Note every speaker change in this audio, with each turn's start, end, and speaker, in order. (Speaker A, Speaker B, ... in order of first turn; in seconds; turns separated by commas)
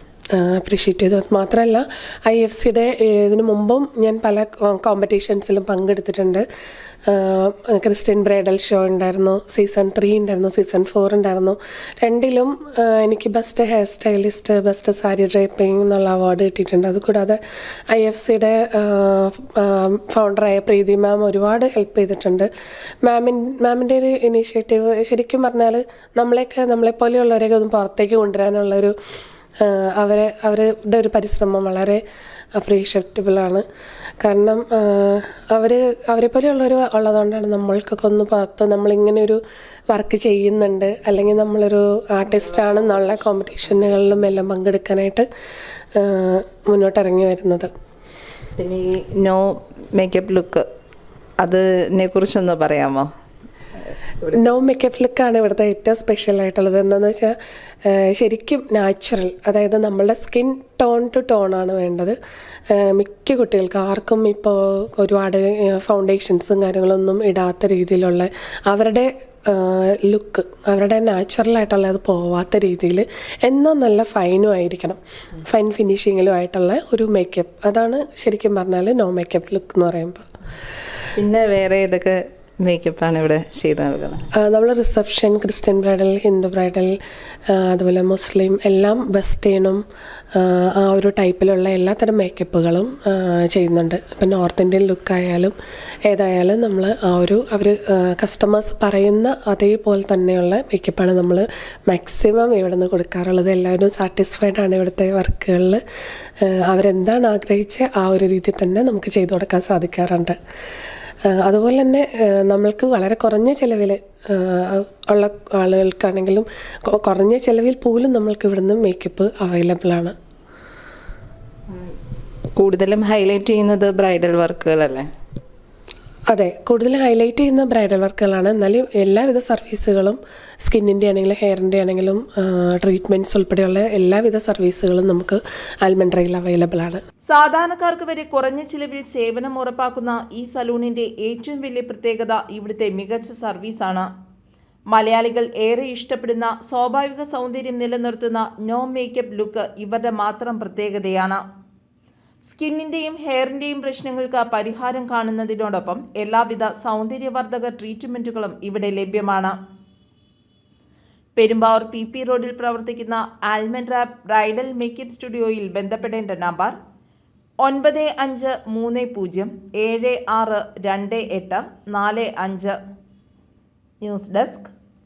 Speaker A: 0.3-6.4, Speaker A: 7.1-17.4, Speaker A: 17.9-22.5, Speaker A: 23.0-28.9, Speaker A: 29.6-32.0, Speaker A: 32.5-33.6, Speaker A: 34.2-45.3, Speaker A: 45.9-47.7, Speaker B: 48.6-50.6, Speaker B: 51.4-53.1, Speaker A: 54.3-57.3, Speaker A: 57.8-62.2, Speaker A: 62.7-80.2, Speaker B: 81.2-84.2, Speaker A: 84.3-87.0, Speaker A: 87.5-89.8, Speaker A: 90.3-95.5, Speaker A: 96.1-105.8, Speaker A: 106.4-110.4, Speaker A: 111.3-120.1, Speaker B: 122.5-125.1, Speaker A: 126.3-137.0, Speaker C: 137.3-144.1, Speaker C: 144.9-151.4, Speaker C: 152.4-159.5, Speaker C: 161.3-166.7, Speaker C: 167.6-172.8, Speaker C: 174.0-174.7